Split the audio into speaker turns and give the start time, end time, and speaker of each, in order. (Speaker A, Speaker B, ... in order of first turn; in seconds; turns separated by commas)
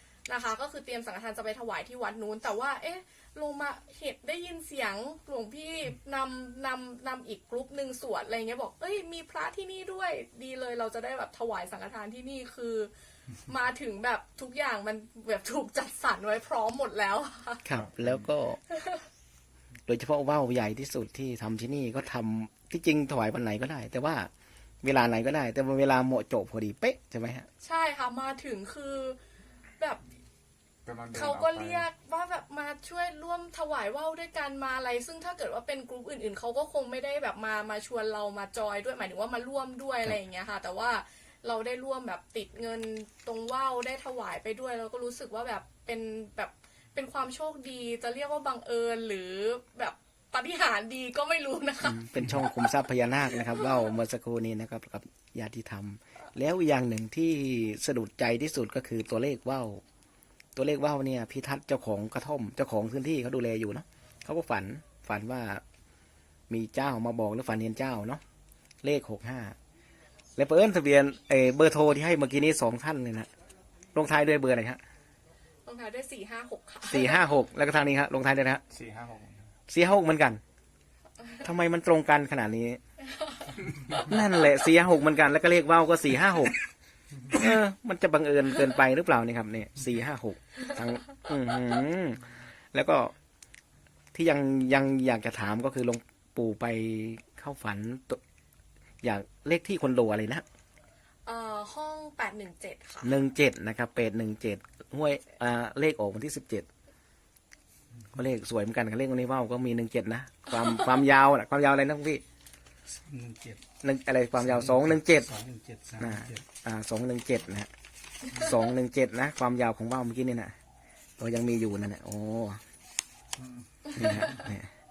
Speaker A: 0.3-12.9, Speaker A: 13.5-17.7, Speaker B: 17.6-18.6, Speaker C: 17.8-18.1, Speaker A: 18.7-19.0, Speaker B: 19.9-24.3, Speaker B: 24.8-27.5, Speaker A: 27.6-29.2, Speaker C: 30.9-31.9, Speaker A: 31.1-52.7, Speaker B: 51.8-59.8, Speaker A: 53.4-53.7, Speaker B: 60.6-65.6, Speaker B: 66.5-68.2, Speaker B: 68.8-69.6, Speaker B: 70.4-73.3, Speaker B: 73.9-74.8, Speaker A: 75.7-77.3, Speaker B: 76.9-78.6, Speaker C: 78.7-79.5, Speaker B: 79.7-80.4, Speaker B: 81.4-82.8, Speaker B: 83.9-86.6, Speaker B: 87.3-93.1, Speaker B: 94.1-98.2, Speaker B: 99.0-100.5, Speaker A: 101.3-103.2, Speaker B: 103.0-106.7, Speaker B: 108.1-112.2, Speaker D: 112.9-113.7, Speaker B: 113.8-115.3, Speaker D: 114.4-116.5, Speaker B: 116.0-117.7, Speaker B: 118.2-120.5, Speaker B: 121.2-122.6, Speaker C: 123.4-123.7, Speaker B: 123.9-124.7